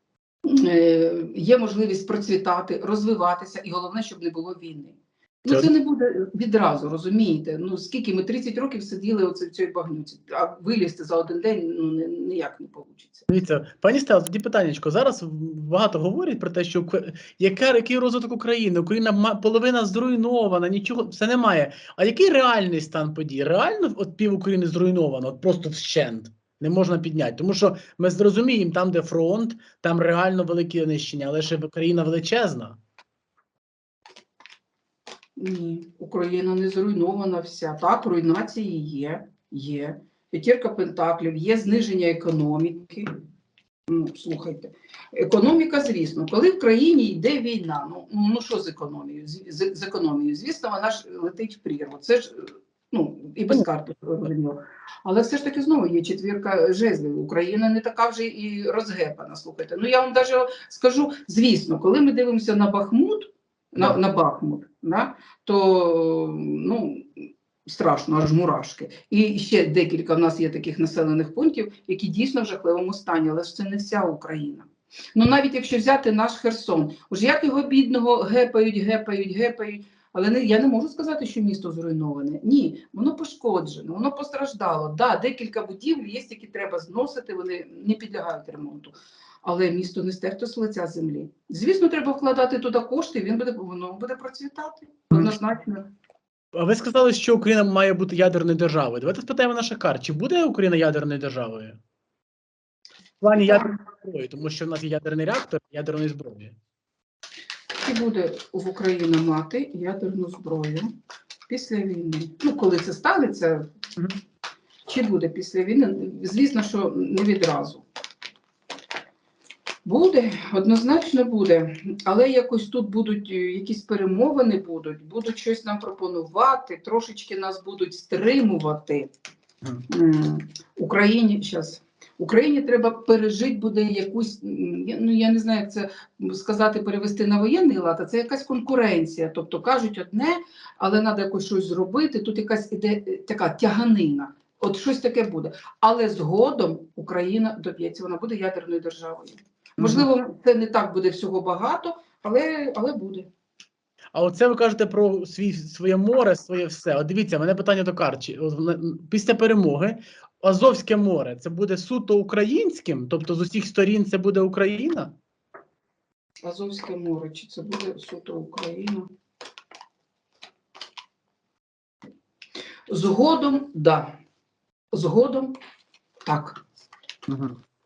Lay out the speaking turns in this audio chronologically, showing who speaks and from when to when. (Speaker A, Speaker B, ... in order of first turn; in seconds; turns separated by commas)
Speaker A: 0.4-13.2, Speaker B: 13.3-32.8, Speaker A: 35.4-43.1, Speaker A: 43.9-95.9, Speaker B: 96.5-101.8, Speaker B: 103.2-106.5, Speaker A: 103.4-103.7, Speaker A: 107.8-110.9, Speaker A: 111.5-113.7, Speaker A: 114.9-117.8, Speaker A: 119.8-129.1, Speaker A: 129.9-153.3, Speaker B: 149.8-150.1, Speaker B: 154.1-165.1, Speaker A: 166.4-169.1, Speaker A: 172.9-174.1, Speaker A: 174.9-175.5, Speaker A: 176.2-176.6, Speaker B: 177.3-177.6